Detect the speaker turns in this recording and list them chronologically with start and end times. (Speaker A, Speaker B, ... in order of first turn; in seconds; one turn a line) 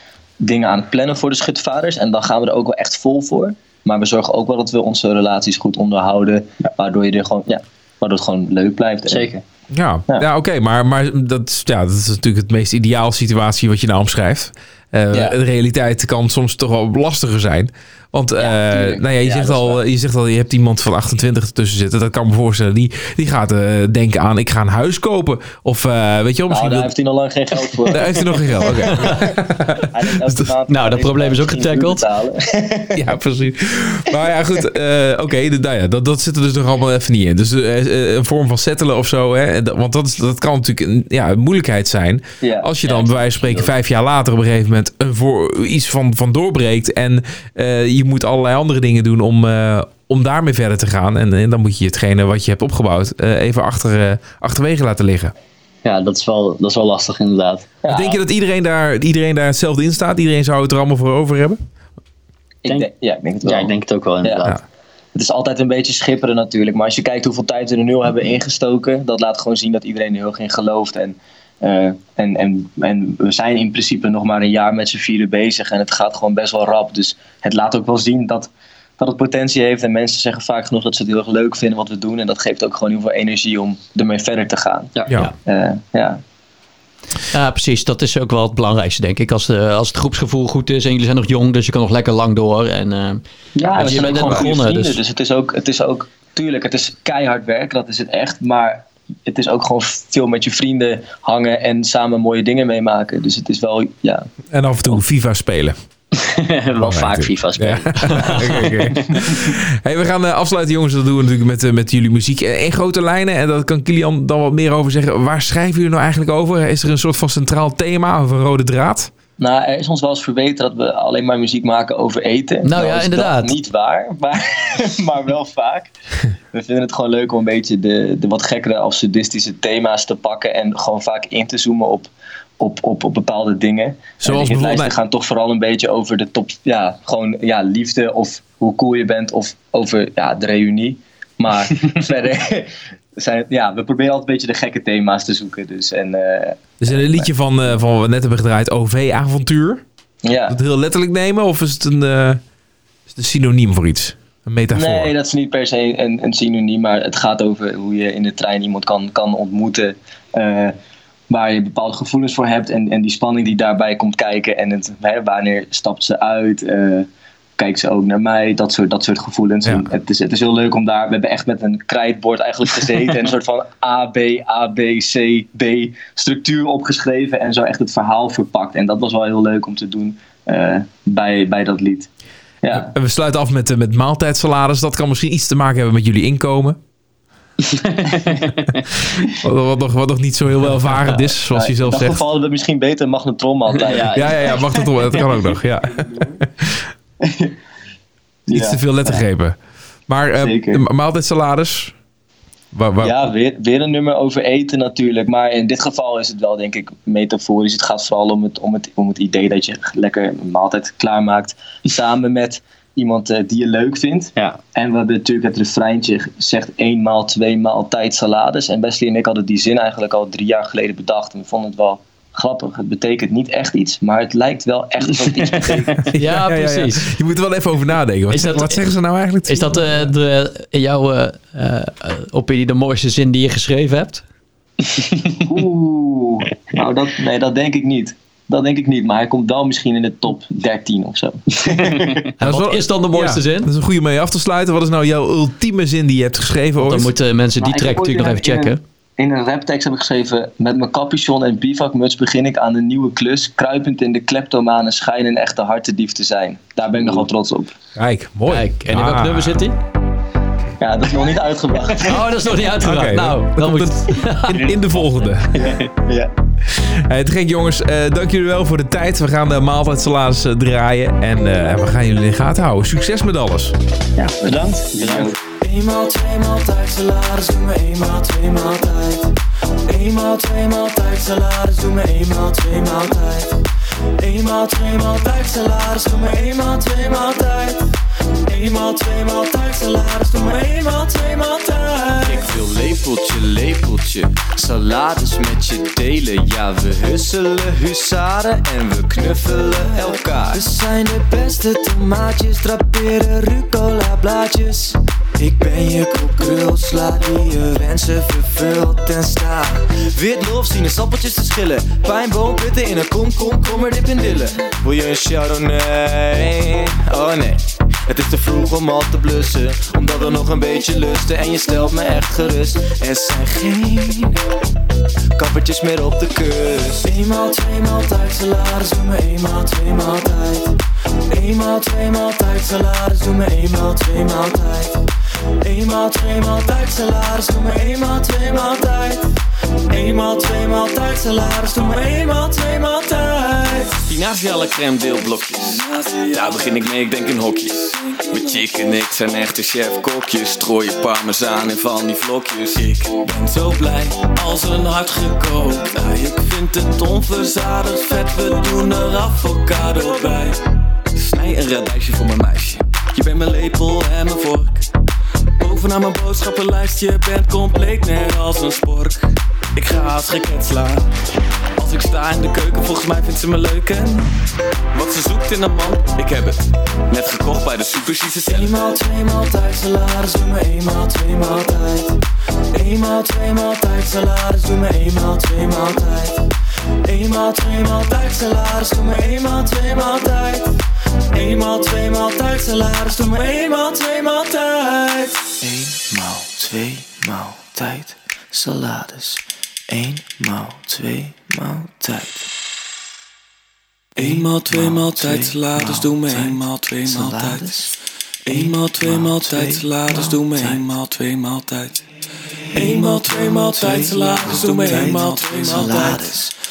Speaker A: 0.4-9.3
Speaker B: 9.1-9.4
Speaker C: 9.7-26.9
Speaker A: 18.4-19.8
Speaker A: 26.5-29.3
Speaker C: 27.9-30.5
Speaker A: 29.8-33.1
Speaker D: 30.7-32.0
Speaker C: 33.0-55.3
Speaker A: 42.4-42.7
Speaker B: 42.9-43.7
Speaker B: 55.8-57.7
Speaker A: 57.8-58.2
Speaker C: 57.9-61.6
Speaker A: 62.6-63.7
Speaker B: 63.4-64.6
Speaker A: 64.2-64.5
Speaker A: 65.2-84.9
Speaker A: 85.5-86.2
Speaker D: 87.3-95.0
Speaker A: 93.6-104.3
Speaker B: 93.6-94.0
Speaker C: 104.5-105.8
Speaker B: 106.2-109.2
Speaker C: 106.8-119.1
Speaker A: 119.4-125.9
Speaker D: 122.6-123.5
Speaker A: 126.5-147.3
Speaker C: 134.2-134.9
Speaker C: 146.8-149.8
Speaker A: 150.2-150.6
Speaker C: 150.5-152.4
Speaker C: 153.1-155.1
Speaker A: 154.7-160.7
Speaker A: 161.3-167.1
Speaker A: 167.6-182.1
Speaker C: 169.6-169.9
Speaker A: 182.6-182.9
Speaker C: 182.7-186.8
Speaker B: 187.7-188.8
Speaker C: 189.4-192.2
Speaker A: 191.5-195.2
Speaker B: 193.8-194.8
Speaker C: 194.1-196.9
Speaker A: 196.0-196.4
Speaker A: 197.2-197.5
Speaker A: 198.5-199.2
Speaker C: 198.5-199.6
Speaker C: 200.1-201.9
Speaker A: 200.4-200.8
Speaker C: 202.7-203.2
Speaker A: 203.0-226.1
Speaker D: 226.1-227.1
Speaker C: 226.2-230.1
Speaker D: 228.3-228.8
Speaker D: 229.5-234.2
Speaker B: 235.0-235.3
Speaker A: 235.4-242.3
Speaker D: 242.4-243.7
Speaker C: 242.4-247.1
Speaker D: 246.8-248.8
Speaker A: 247.6-257.7
Speaker C: 258.0-259.6
Speaker D: 258.5-259.8
Speaker A: 260.8-262.3
Speaker D: 262.0-264.6
Speaker C: 262.8-265.8
Speaker A: 265.5-266.3
Speaker C: 266.7-273.8
Speaker A: 274.4-275.3
Speaker B: 275.0-275.3
Speaker E: 275.6-279.3
Speaker E: 279.9-283.6
Speaker E: 284.2-287.9
Speaker E: 288.5-324.4
Speaker E: 325.4-330.7
Speaker E: 331.3-335.0
Speaker E: 335.6-339.3
Speaker E: 339.9-344.0
Speaker F: 344.1-360.6
Speaker F: 361.1-364.9
Speaker F: 365.6-371.1
Speaker F: 371.8-374.4
Speaker F: 374.9-378.7
Speaker E: 378.4-382.2
Speaker E: 382.7-386.4
Speaker E: 387.1-390.7
Speaker E: 391.3-402.5
Speaker F: 404.2-407.7
Speaker E: 404.2-407.9
Speaker F: 408.5-412.1
Speaker E: 408.5-410.8
Speaker F: 412.7-416.3
Speaker E: 412.7-416.5